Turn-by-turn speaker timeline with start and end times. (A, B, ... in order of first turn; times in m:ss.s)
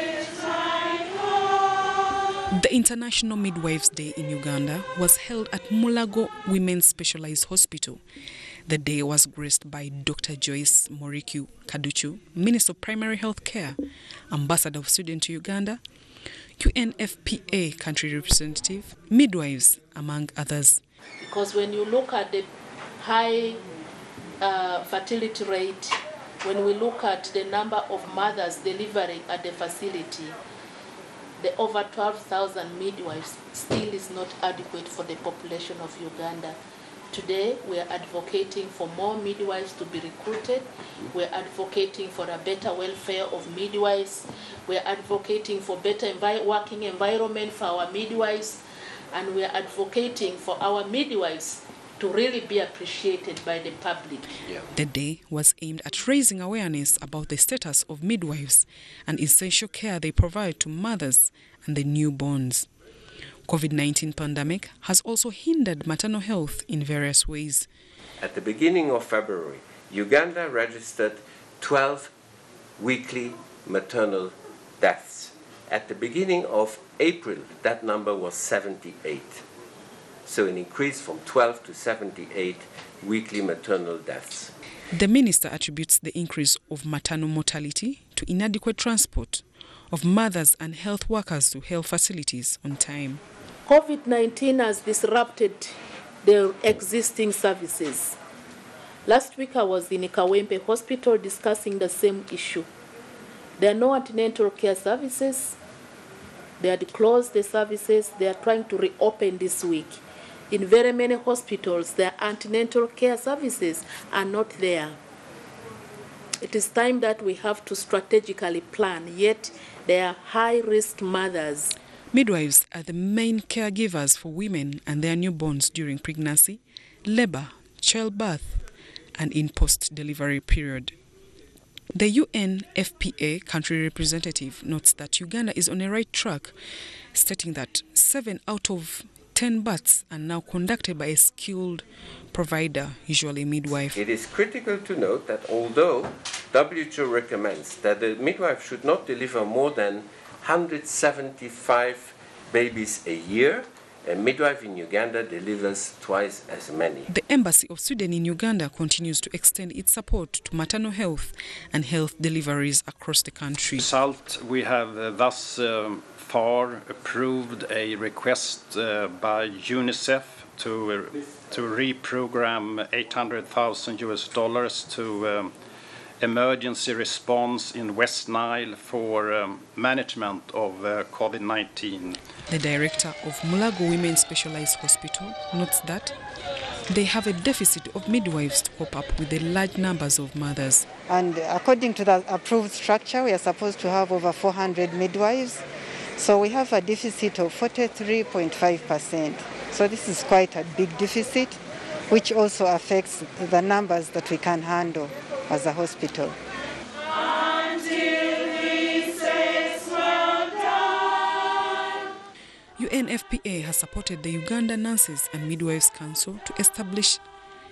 0:02.5-0:08.0 A
0:08.7-0:13.8 A
0:14.3-0:15.8 A
0:16.6-0:20.8 A
0:21.2-0:22.5 B
0:23.0-0:23.6 B
0:24.4-0:30.3 B
0:31.4-0:36.6 B
0:37.1-0:54.3 B
0:54.7-1:02.7 A
1:03.5-1:07.7 A
1:08.2-1:12.1 C
1:12.8-1:19.4 C
1:20.2-1:24.5 C
1:24.9-1:33.2 A
1:33.6-1:38.2 B
1:39.0-1:42.7 B
1:43.6-1:45.6 B
1:46.6-1:55.0 B
1:56.4-2:01.7 B
2:02.1-2:08.6 A
2:09.2-2:10.9 A
2:11.9-2:16.5 A
2:17.1-2:24.0 A
2:23.9-2:37.1 C
2:37.1-2:43.8 A
2:43.8-2:55.5 D
2:56.2-3:02.2 D
3:02.5-3:06.1 A
3:06.9-3:10.8 A
3:11.1-3:15.6 E
3:16.2-3:21.6 E
3:22.1-3:26.4 E
3:32.8-3:37.2 A